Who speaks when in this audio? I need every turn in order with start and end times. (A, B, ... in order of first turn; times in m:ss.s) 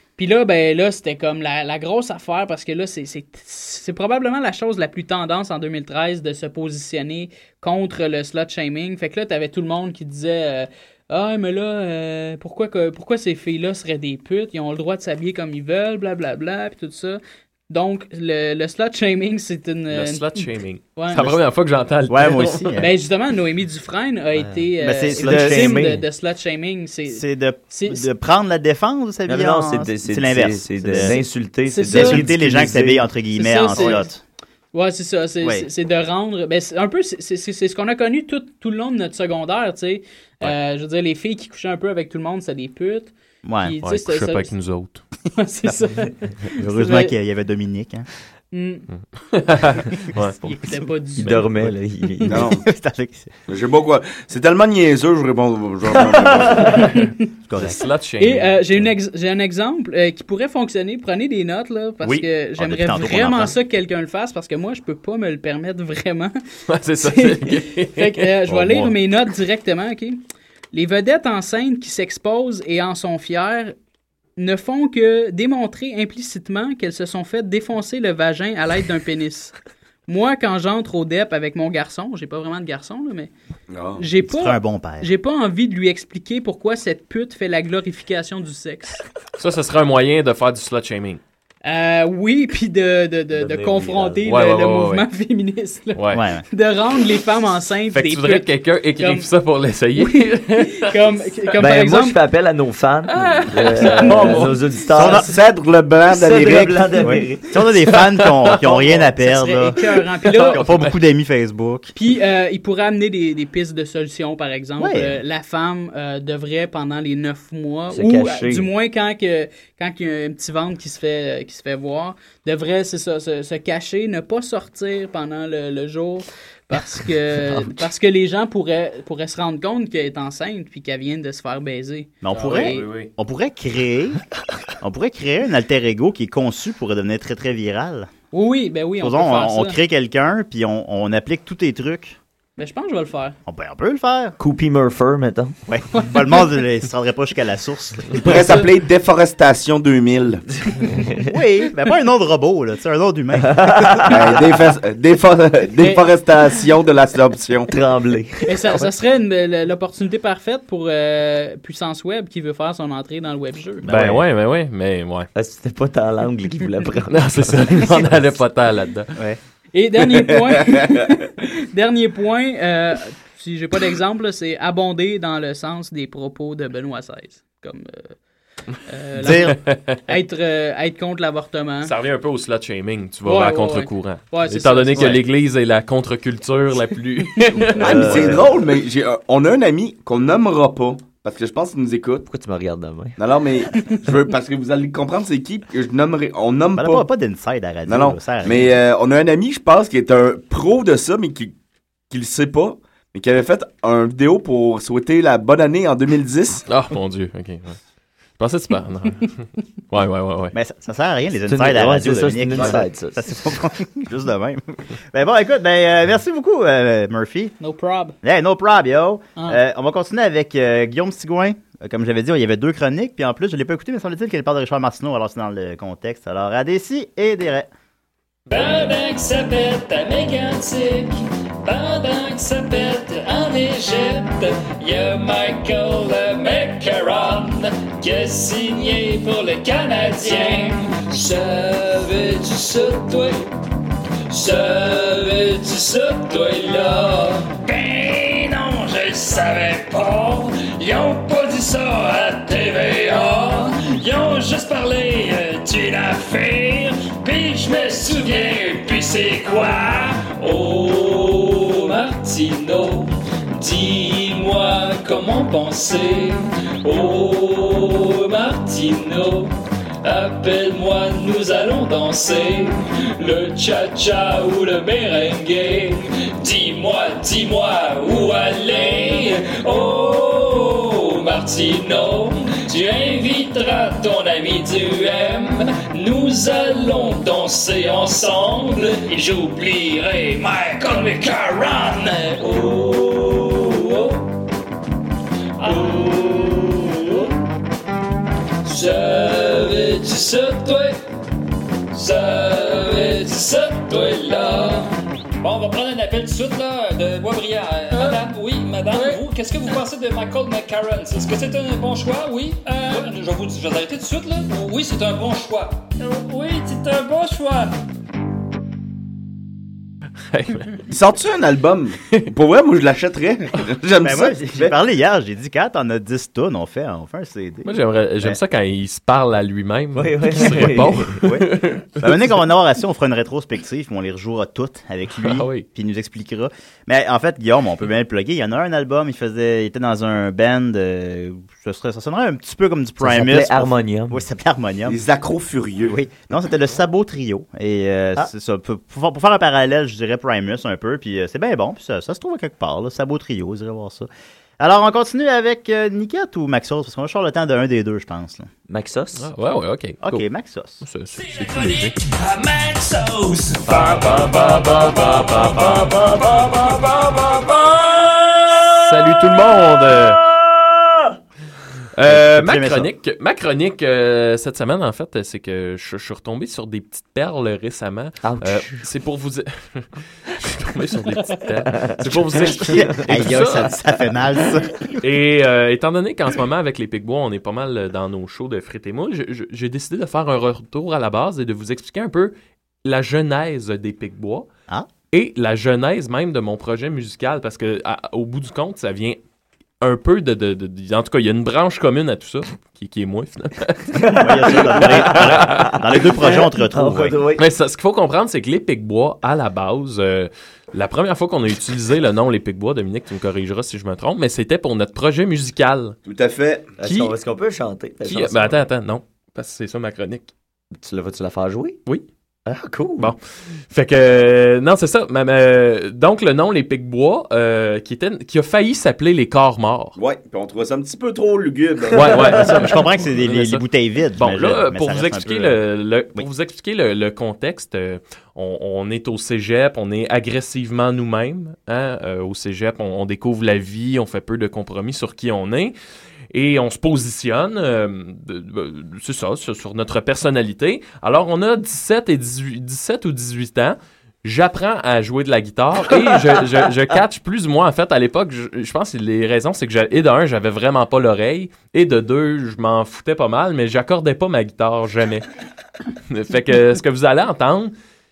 0:00.2-0:21.4 A
0:19.9-0:22.8 B
0:22.1-0:22.9 C
0:22.8-0:28.1 A
0:24.4-0:24.6 D
0:24.8-0:25.8 C
0:25.2-0:26.0 D
0:27.1-0:31.2 C
0:29.3-0:33.1 D
0:31.7-0:32.2 A
0:31.8-0:34.2 C
0:33.3-0:34.2 A
0:34.7-0:44.5 A
0:43.4-0:43.8 C
0:43.8-0:45.0 B
0:45.4-0:47.1 A
0:46.6-0:48.0 C
0:48.5-0:48.9 A
0:49.3-0:50.4 B
0:50.4-0:51.5 A
0:51.2-0:52.4 D
0:51.3-0:51.7 B
0:52.3-0:52.6 E
0:52.4-0:53.3 C
0:53.5-0:57.0 E
0:57.5-0:57.8 C
0:57.6-0:58.7 B
0:58.2-1:06.3 A
1:02.6-1:03.6 C
1:06.7-1:09.0 B
1:07.0-1:10.2 A
1:10.7-1:13.7 A
1:14.4-1:19.5 A
1:20.1-1:23.3 A
1:23.7-1:24.1 E
1:24.0-1:29.0 A
1:24.2-1:25.1 C
1:29.4-1:31.2 B
1:31.6-1:39.3 A
1:33.3-1:34.2 D
1:34.2-1:35.1 B
1:35.9-1:36.2 B
1:36.1-1:36.4 C
1:37.9-1:40.9 B
1:40.0-1:42.2 A
1:41.6-1:45.3 D
1:43.2-1:44.6 B
1:44.1-1:44.4 A
1:44.9-1:45.3 C
1:44.9-1:47.0 E
1:46.1-1:47.6 D
1:47.0-1:49.8 C
1:48.1-1:48.6 B
1:48.6-1:50.6 A
1:50.2-1:51.0 B
1:50.3-1:51.9 C
1:51.9-2:12.8 A
1:54.8-1:55.2 C
1:57.9-1:58.7 D
2:12.2-2:14.2 C
2:12.3-2:13.1 B
2:14.8-2:18.1 C
2:18.3-2:19.8 A
2:19.0-2:22.2 C
2:22.6-2:23.4 A
2:23.4-2:24.4 C
2:24.4-2:25.5 D
2:25.7-2:28.5 C
2:25.9-2:26.5 A
2:28.2-2:30.4 E
2:28.4-2:28.6 A
2:30.9-2:31.2 D
2:31.3-2:34.4 C
2:33.4-2:34.1 D
2:34.1-2:37.7 E
2:35.8-2:36.1 A
2:37.7-2:38.7 D
2:38.5-2:43.9 A
2:43.8-2:44.2 C
2:43.9-2:45.3 B
2:45.3-2:48.3 D
2:47.1-2:49.1 B
2:49.7-2:51.1 A
2:50.2-2:50.8 E
2:51.7-2:58.2 A
2:58.9-3:01.9 A
2:59.2-3:00.0 B
2:59.2-2:59.6 C
3:01.8-3:08.3 B
3:03.2-3:05.2 A
3:07.8-3:08.4 C
3:07.8-3:08.4 D
3:07.8-3:12.3 E
3:12.3-3:13.2 D
3:13.2-3:17.0 E
3:16.8-3:18.7 C
3:17.9-3:21.5 E
3:22.1-3:26.6 E
3:26.7-3:27.8 B
3:28.4-3:30.5 B
3:30.5-3:37.5 C
3:31.4-3:33.3 D
3:37.6-3:38.2 A
3:38.2-3:47.7 C
3:48.5-3:51.1 F
3:51.6-4:03.5 F
4:04.3-4:54.2 F
4:55.6-4:57.3 F
4:58.6-5:01.0 F
5:01.9-5:17.7 F
5:20.3-5:20.8 B
5:20.9-5:24.7 E
5:24.0-5:28.4 C
5:27.6-5:32.1 B
5:29.9-5:31.2 D
5:31.2-5:45.0 C
5:35.1-5:35.6 B
5:43.0-5:44.2 D
5:44.8-5:46.0 E
5:45.8-5:54.1 C
5:54.6-5:58.5 C
5:58.7-5:59.3 D
5:59.2-6:00.2 B
6:00.0-6:00.8 C
6:00.8-6:02.0 B
6:01.3-6:08.4 F
6:03.7-6:06.0 B
6:08.8-6:10.2 B
6:11.9-6:23.8 B
6:12.0-6:12.9 C
6:18.2-6:18.8 D
6:21.8-6:23.4 D
6:22.5-6:24.9 C
6:25.0-6:32.3 B
6:32.8-6:34.5 B
6:35.1-6:39.2 B
6:39.8-6:44.0 B
6:44.0-6:47.4 D
6:44.2-6:47.2 C
6:44.5-6:46.0 B
6:47.4-6:56.0 B
6:56.0-6:56.7 E
6:56.8-6:58.6 D
6:56.8-6:57.1 B
6:58.0-7:00.3 B
7:00.7-7:01.8 D
7:02.4-7:03.1 D
7:03.0-7:10.0 B
7:10.0-7:12.4 E
7:11.9-7:25.7 B
7:12.4-7:15.6 C
7:26.3-7:45.2 B
7:46.1-7:47.7 B